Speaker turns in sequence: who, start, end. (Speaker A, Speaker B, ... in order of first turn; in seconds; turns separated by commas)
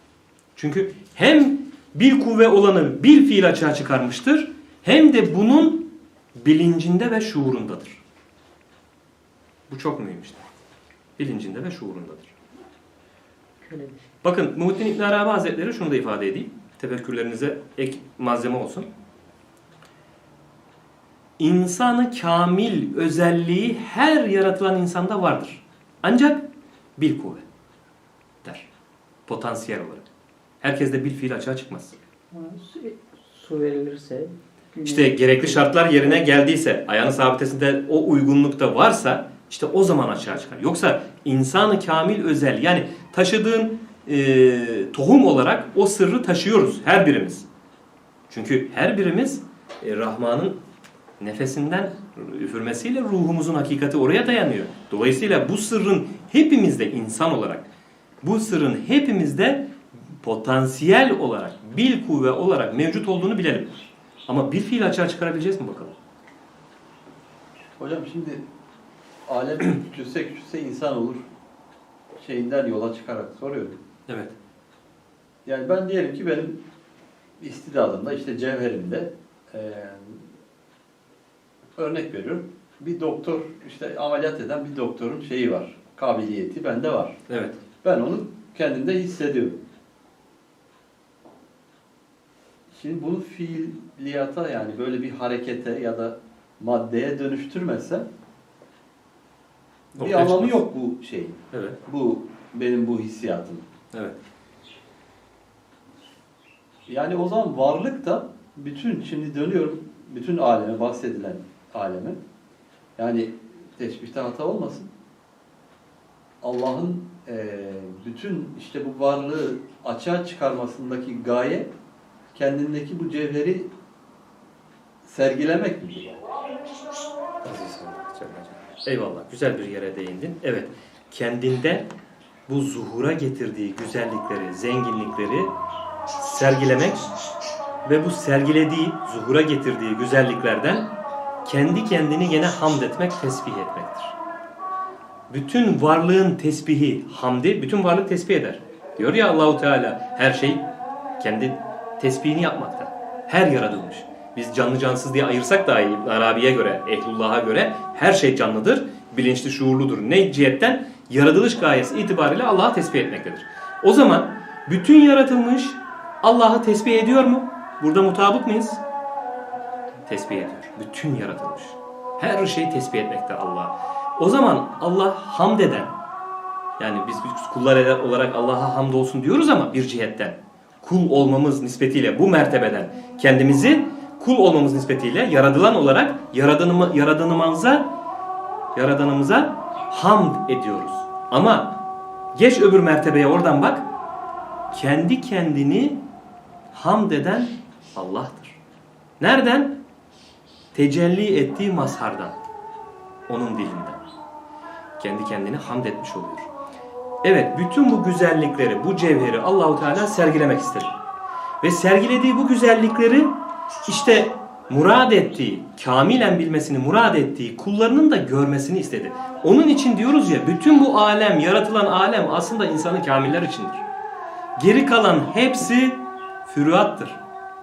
Speaker A: 0.6-8.0, Speaker A: 9.7-10.4, Speaker A: 11.2-12.3, Speaker B: 13.6-14.0, Speaker A: 14.2-18.9, Speaker A: 21.4-26.5, Speaker A: 27.0-27.4, Speaker A: 28.4-28.7, Speaker A: 29.3-30.1, Speaker A: 30.6-32.0, Speaker B: 32.3-36.0, Speaker A: 34.8-47.5, Speaker A: 48.3-50.6, Speaker A: 51.2-57.7, Speaker A: 58.2-63.8, Speaker A: 64.3-65.9, Speaker C: 67.8-68.4, Speaker C: 69.3-71.2, Speaker C: 72.2-73.8, Speaker A: 74.1-74.3, Speaker C: 75.5-76.6, Speaker C: 77.4-80.3, Speaker C: 81.8-87.2, Speaker A: 87.3-87.6, Speaker C: 87.8-89.6, Speaker C: 92.7-98.1, Speaker A: 99.9-100.6, Speaker C: 100.0-103.7, Speaker A: 101.5-101.8, Speaker C: 106.9-112.2, Speaker C: 113.0-114.9, Speaker C: 116.4-121.7, Speaker C: 122.3-123.7, Speaker C: 125.0-126.2, Speaker A: 127.4-131.9, Speaker A: 132.5-135.5, Speaker A: 136.2-137.1, Speaker A: 137.8-140.9, Speaker A: 141.4-144.2, Speaker A: 145.3-150.7, Speaker A: 151.2-168.8, Speaker A: 170.1-175.9, Speaker A: 176.8-187.9, Speaker A: 188.8-191.8, Speaker A: 192.3-193.9, Speaker A: 194.7-196.0, Speaker A: 196.7-198.6, Speaker A: 199.2-199.8, Speaker A: 200.7-202.4, Speaker A: 203.3-204.0, Speaker A: 205.0-206.5, Speaker A: 207.2-210.9, Speaker A: 211.6-213.4, Speaker A: 213.9-223.8, Speaker A: 224.6-227.2